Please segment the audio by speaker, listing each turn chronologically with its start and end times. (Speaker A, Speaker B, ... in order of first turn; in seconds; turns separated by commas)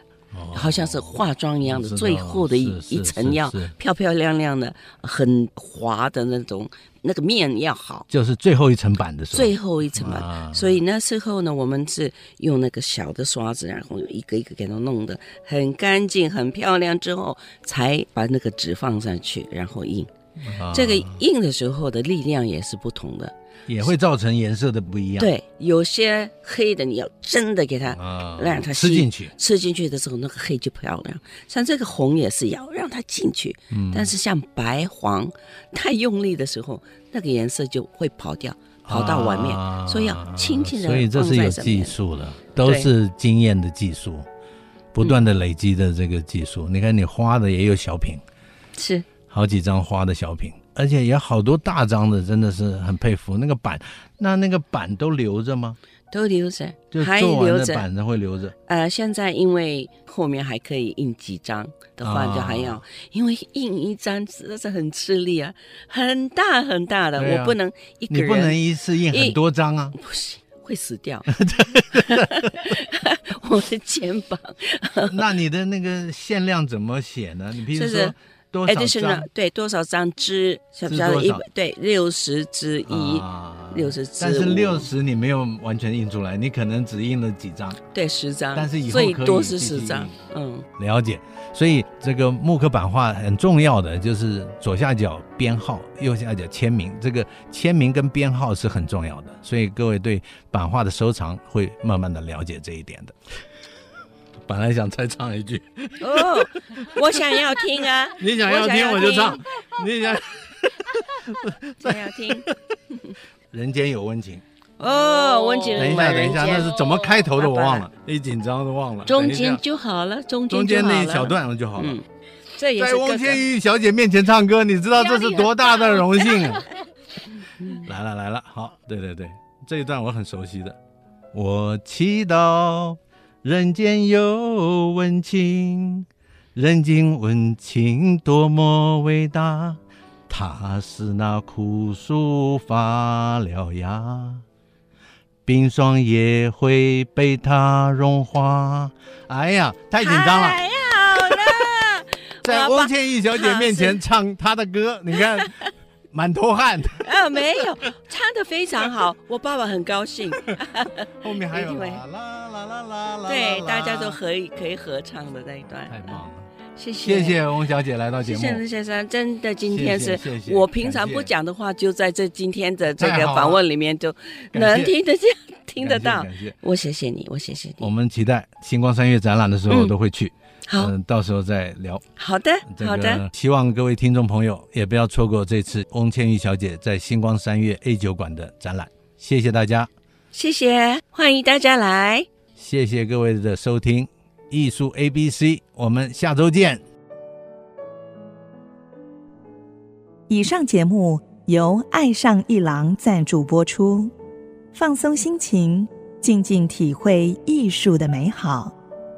Speaker A: 0.3-3.7, Speaker B: 0.5-8.1, Speaker A: 8.1-10.8, Speaker B: 9.3-20.1, Speaker A: 20.4-21.2, Speaker B: 20.7-23.3, Speaker A: 23.7-25.3, Speaker B: 25.2-41.9, Speaker A: 27.9-29.3, Speaker A: 33.7-34.1, Speaker A: 38.9-44.3, Speaker B: 42.6-42.9, Speaker A: 44.9-48.2, Speaker B: 48.8-49.1, Speaker A: 49.3-55.8, Speaker B: 56.1-57.9, Speaker A: 56.9-58.5, Speaker B: 58.7-69.4, Speaker A: 62.0-62.8, Speaker A: 67.2-67.6, Speaker A: 68.1-70.0, Speaker B: 69.9-71.4, Speaker A: 71.3-72.6, Speaker B: 71.9-75.2, Speaker A: 75.0-79.3, Speaker B: 77.7-78.1, Speaker B: 78.7-84.9, Speaker A: 80.9-81.4, Speaker A: 82.9-87.8, Speaker B: 87.9-90.7, Speaker A: 88.5-90.2, Speaker A: 90.8-103.2, Speaker A: 104.5-107.6, Speaker B: 106.0-109.4, Speaker A: 108.2-112.6, Speaker B: 111.8-112.5, Speaker A: 113.5-114.4, Speaker B: 114.8-117.9, Speaker A: 115.8-119.6, Speaker B: 119.1-123.5, Speaker A: 120.5-122.0, Speaker A: 122.8-126.7, Speaker B: 125.1-125.6, Speaker A: 127.7-130.8, Speaker A: 131.3-144.4, Speaker A: 145.5-150.6, Speaker B: 150.0-154.0, Speaker A: 151.2-151.7, Speaker A: 152.4-155.6, Speaker A: 156.1-157.1, Speaker B: 157.0-162.0, Speaker A: 161.2-164.2, Speaker B: 163.3-166.2, Speaker A: 165.9-166.5, Speaker B: 166.8-167.4, Speaker A: 167.0-168.6, Speaker B: 168.2-177.9, Speaker A: 169.7-171.3, Speaker A: 173.0-173.6, Speaker A: 174.5-174.9, Speaker A: 175.8-176.6, Speaker A: 177.8-182.0, Speaker B: 179.7-179.9, Speaker B: 180.7-180.9, Speaker B: 182.2-183.2, Speaker A: 182.7-189.9, Speaker B: 190.3-192.3, Speaker A: 192.6-196.8, Speaker C: 200.3-204.1, Speaker C: 204.7-208.8